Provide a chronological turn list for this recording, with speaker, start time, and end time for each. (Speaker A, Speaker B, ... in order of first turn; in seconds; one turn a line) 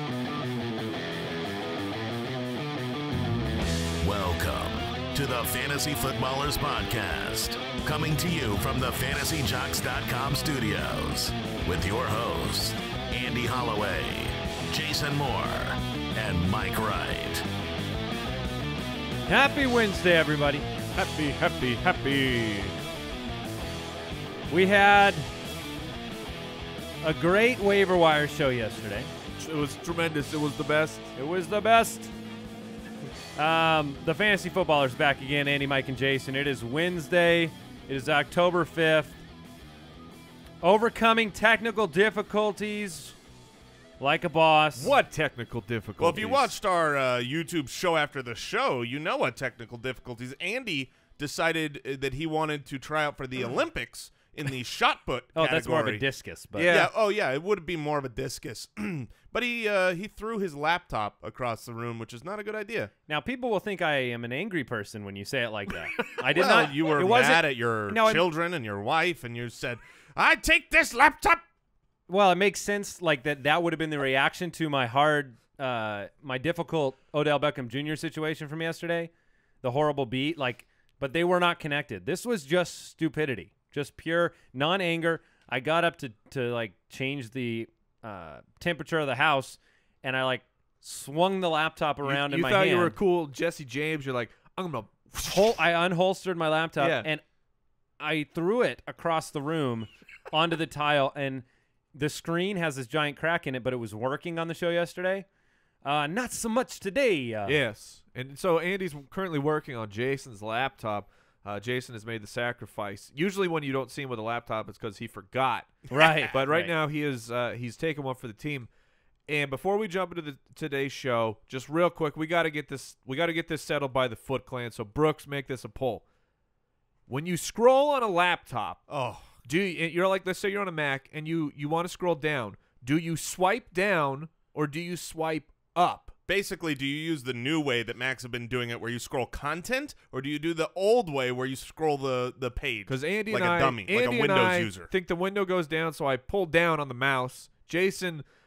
Speaker A: 4.0-17.4
Speaker B: 19.3-20.7
Speaker C: 20.9-22.8
Speaker B: 24.5-25.3
Speaker B: 27.0-29.1
Speaker C: 29.4-31.1
Speaker B: 31.1-32.1
Speaker B: 33.4-39.2
Speaker B: 40.6-43.1
Speaker B: 44.0-44.9
Speaker C: 44.8-46.5
Speaker D: 46.0-56.0
Speaker B: 55.3-56.8
Speaker C: 56.5-56.9
Speaker D: 56.6-62.9
Speaker B: 63.1-68.2
Speaker D: 66.3-71.4
Speaker B: 72.1-79.1
Speaker B: 79.6-93.0
Speaker C: 92.0-95.6
Speaker B: 95.2-97.2
Speaker C: 96.8-97.1
Speaker B: 98.0-105.2
Speaker B: 105.8-107.6
Speaker C: 107.5-118.7
Speaker B: 115.9-116.7
Speaker C: 119.3-126.0
Speaker C: 127.1-128.8
Speaker D: 128.9-129.3
Speaker C: 129.4-136.1
Speaker D: 136.3-144.9
Speaker C: 142.9-148.2